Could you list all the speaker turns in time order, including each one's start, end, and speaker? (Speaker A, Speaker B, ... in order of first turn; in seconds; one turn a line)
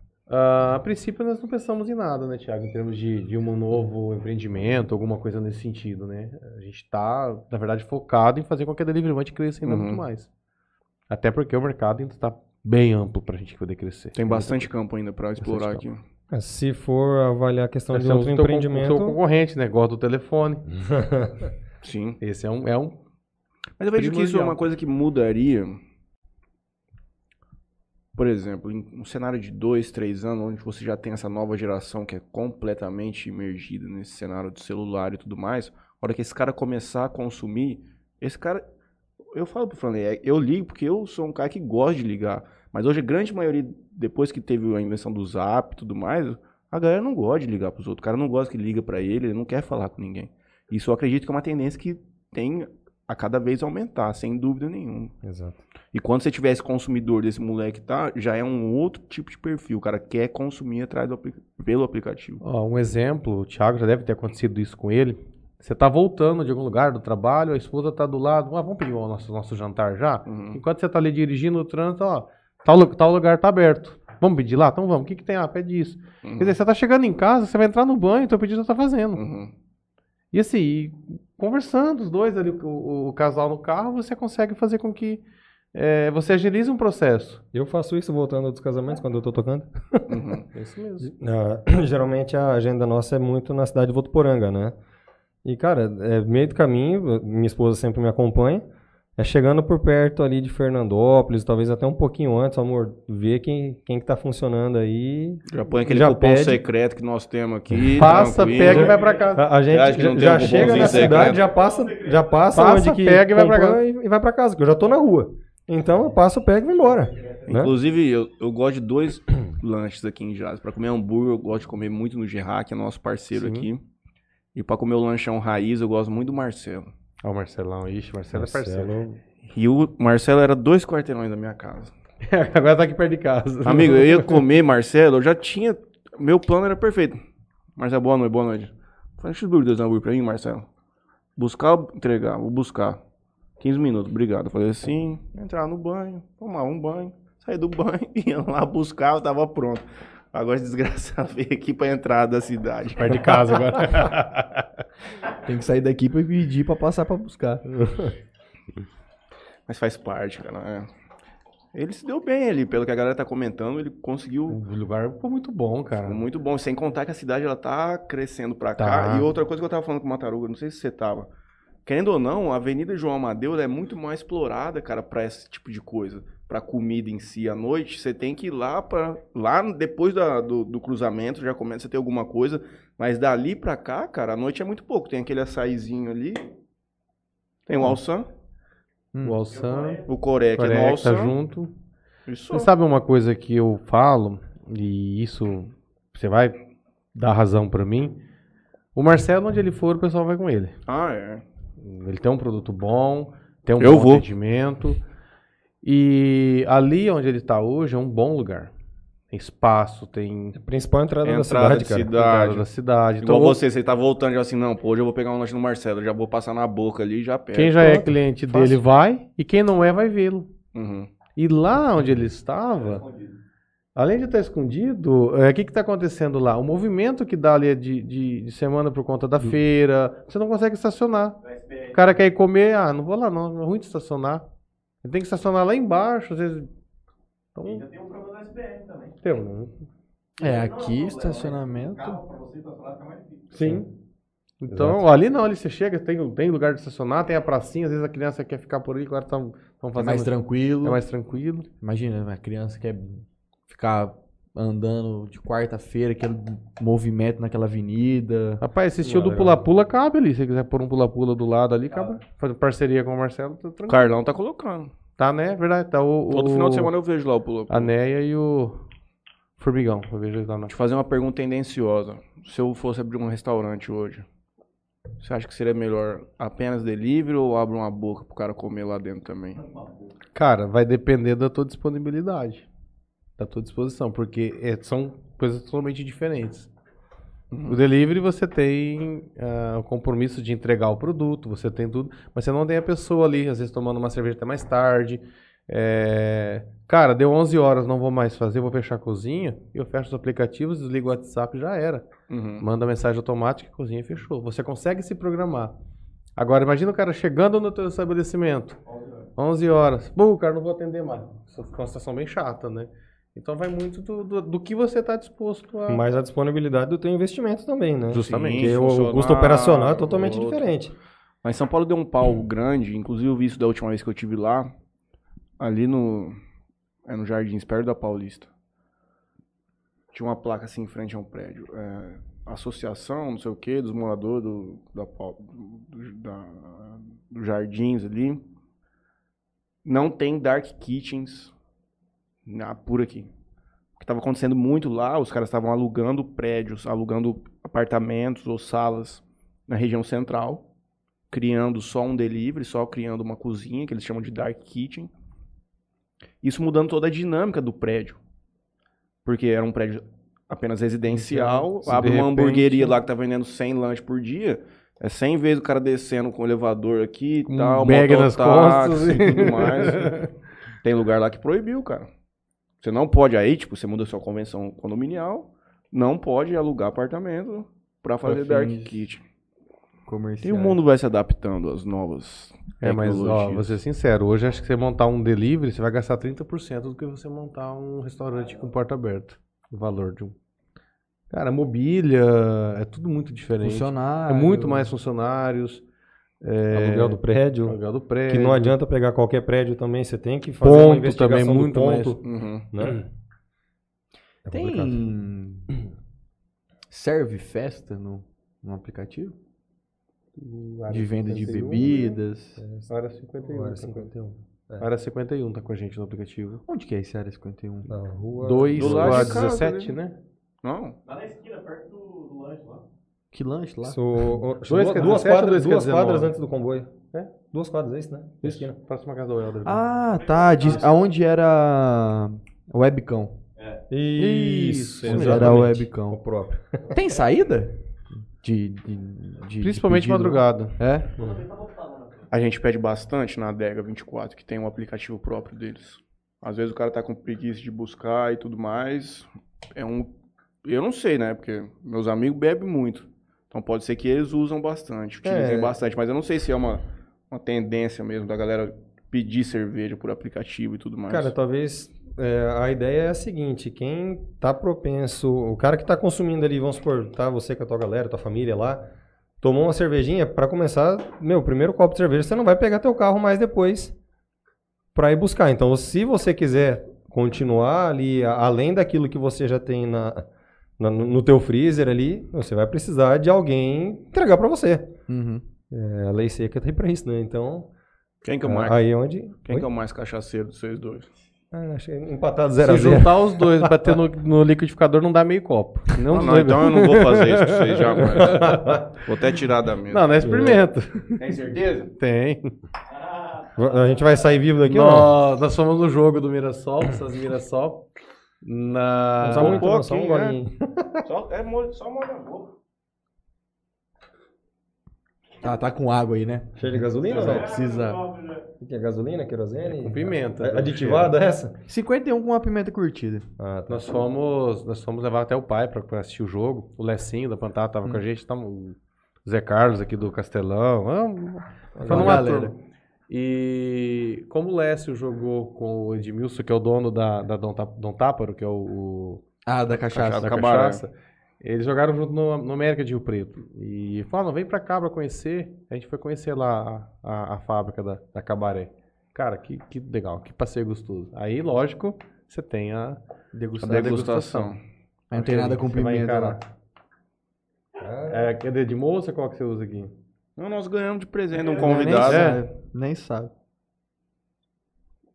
Speaker A: 0.3-10.3
Speaker B: 9.6-10.0
Speaker A: 11.1-14.7
Speaker B: 14.1-16.0
Speaker A: 15.4-15.8
Speaker C: 16.3-19.2
Speaker A: 17.9-20.6
Speaker C: 20.9-21.3
Speaker B: 21.8-22.2
Speaker A: 22.2-22.9
Speaker B: 23.8-25.8
Speaker A: 24.0-24.5
Speaker B: 28.1-38.6
Speaker B: 39.3-55.1
Speaker C: 55.2-55.6
Speaker B: 55.9-62.4
Speaker A: 62.4-79.2
Speaker B: 70.2-70.6
Speaker B: 76.2-76.6
Speaker B: 79.1-79.5
Speaker A: 80.3-85.2
Speaker A: 85.7-87.4
Speaker C: 87.5-90.2
Speaker B: 90.1-90.5
Speaker A: 90.5-91.1
Speaker C: 91.0-94.7
Speaker C: 95.4-98.6
Speaker C: 99.2-106.6
Speaker B: 105.5-109.0
Speaker C: 107.8-117.7
Speaker A: 108.0-109.5
Speaker B: 109.7-111.4
Speaker A: 110.5-111.0
Speaker D: 110.6-112.4
Speaker A: 112.5-113.8
Speaker B: 117.5-123.8
Speaker A: 123.3-123.7
Speaker B: 124.5-126.9
Speaker A: 127.2-129.2
Speaker C: 128.3-128.9
Speaker B: 129.5-131.9
Speaker A: 132.2-134.4
Speaker B: 133.6-137.2
Speaker B: 137.8-140.7
Speaker B: 141.3-143.0
Speaker B: 143.6-153.4
Speaker A: 153.0-154.7
Speaker E: 155.4-158.1
Speaker B: 159.7-160.9
Speaker B: 161.7-164.6
Speaker A: 164.5-166.2
Speaker B: 166.0-171.3
Speaker A: 168.8-169.3
Speaker B: 171.8-186.4
Speaker B: 187.7-188.3
Speaker A: 189.2-190.0
Speaker D: 189.5-190.0
Speaker B: 190.1-191.3
Speaker A: 190.6-191.7
Speaker B: 192.3-192.7
Speaker A: 192.5-196.6
Speaker A: 197.1-198.2
Speaker A: 198.9-200.7
Speaker B: 200.9-201.4
Speaker A: 201.8-205.0
Speaker B: 203.8-204.2
Speaker A: 205.8-208.7
Speaker A: 209.3-210.6
Speaker C: 210.6-212.1
Speaker B: 211.2-212.7
Speaker A: 212.1-213.6
Speaker B: 213.2-218.8
Speaker A: 217.5-220.5
Speaker B: 220.7-221.1
Speaker A: 221.3-223.0
Speaker D: 222.8-223.3
Speaker A: 223.9-231.4
Speaker D: 231.4-232.0
Speaker A: 231.9-234.4
Speaker A: 235.0-236.7
Speaker A: 237.6-237.8
Speaker D: 237.6-239.2
Speaker A: 239.2-239.7
Speaker E: 240.4-242.2
Speaker D: 240.4-243.6
Speaker A: 243.5-243.9
Speaker A: 244.6-251.7
Speaker C: 244.7-245.0
Speaker E: 249.9-251.0
Speaker E: 251.8-258.6
Speaker A: 258.6-264.1
Speaker C: 259.0-259.6
Speaker B: 263.9-264.9
Speaker A: 265.2-266.9
Speaker B: 266.3-267.9
Speaker A: 267.7-268.8
Speaker A: 269.6-270.7
Speaker B: 270.7-274.2
Speaker B: 275.2-279.6
Speaker D: 279.6-279.9
Speaker A: 280.3-282.6
Speaker A: 283.4-286.7
Speaker B: 287.5-287.8
Speaker A: 287.7-302.1
Speaker B: 302.3-302.6
Speaker A: 302.6-305.7
Speaker A: 306.4-308.8
Speaker D: 308.9-309.2
Speaker A: 309.4-316.0
Speaker C: 315.9-320.9
Speaker A: 318.1-318.7
Speaker B: 318.1-320.7
Speaker B: 321.4-324.7
Speaker B: 325.6-326.4
Speaker B: 327.1-328.5
Speaker B: 330.1-338.4
Speaker B: 339.8-341.5
Speaker B: 342.4-343.3
Speaker B: 344.0-350.6
Speaker B: 351.3-355.1
Speaker B: 356.4-358.2
Speaker B: 359.2-370.2
Speaker A: 361.1-362.9
Speaker A: 367.5-370.3
Speaker B: 370.8-372.1
Speaker B: 372.8-379.2
Speaker E: 378.2-379.0
Speaker E: 380.1-380.8
Speaker B: 380.4-383.8
Speaker A: 382.8-390.3
Speaker A: 391.3-395.8
Speaker E: 393.6-394.9
Speaker A: 396.4-398.7
Speaker C: 396.7-397.8
Speaker C: 398.3-403.0
Speaker A: 400.6-402.2
Speaker B: 402.2-402.7
Speaker C: 404.4-405.0
Speaker E: 404.5-405.7
Speaker E: 406.9-409.4
Speaker A: 410.4-412.1
Speaker E: 410.9-412.6
Speaker C: 412.6-412.9
Speaker A: 412.9-414.1
Speaker C: 413.4-414.9
Speaker A: 414.8-416.6
Speaker E: 416.6-417.9
Speaker C: 417.9-419.3
Speaker A: 418.4-420.2
Speaker B: 418.7-419.9
Speaker B: 420.6-421.0
Speaker D: 421.0-422.8
Speaker E: 423.3-424.2
Speaker C: 423.8-426.9
Speaker A: 424.7-426.3
Speaker C: 427.5-428.7
Speaker A: 428.4-429.8
Speaker E: 429.6-433.4
Speaker D: 430.1-431.0
Speaker C: 433.9-437.0
Speaker A: 434.2-435.8
Speaker E: 435.0-436.2
Speaker E: 436.9-437.8
Speaker E: 438.3-441.1
Speaker A: 439.6-440.7
Speaker D: 441.1-442.3
Speaker B: 442.3-450.1
Speaker B: 450.6-461.3
Speaker C: 455.2-455.7
Speaker C: 461.1-468.8
Speaker C: 469.4-473.9
Speaker C: 474.9-480.2
Speaker C: 480.8-484.9
Speaker E: 485.1-485.4
Speaker C: 485.7-487.7
Speaker B: 488.2-488.9
Speaker C: 488.4-489.6
Speaker B: 489.4-491.1
Speaker C: 491.5-494.0
Speaker A: 492.6-498.8
Speaker B: 496.1-500.1
Speaker C: 498.2-498.9
Speaker A: 499.9-501.4
Speaker C: 500.2-500.6
Speaker B: 501.2-501.9
Speaker A: 501.9-502.5
Speaker C: 503.6-505.1
Speaker A: 504.6-507.8
Speaker A: 508.4-509.7
Speaker C: 509.2-511.0
Speaker B: 509.2-510.4
Speaker B: 511.0-512.5
Speaker E: 515.4-518.0
Speaker C: 516.6-517.5
Speaker D: 517.1-518.5
Speaker C: 518.6-521.5
Speaker A: 519.7-521.2
Speaker E: 521.7-523.3
Speaker C: 523.4-523.9
Speaker A: 523.7-532.5
Speaker C: 531.8-532.3
Speaker E: 531.8-532.5
Speaker A: 533.1-539.2
Speaker E: 539.5-540.3
Speaker B: 539.9-540.8
Speaker A: 540.2-553.0
Speaker E: 553.3-554.1
Speaker B: 553.6-554.6
Speaker A: 553.6-554.5
Speaker E: 555.1-556.4
Speaker A: 555.1-556.5
Speaker C: 557.8-558.3
Speaker A: 558.1-559.9
Speaker B: 560.4-562.4
Speaker E: 561.4-563.3
Speaker A: 562.0-562.4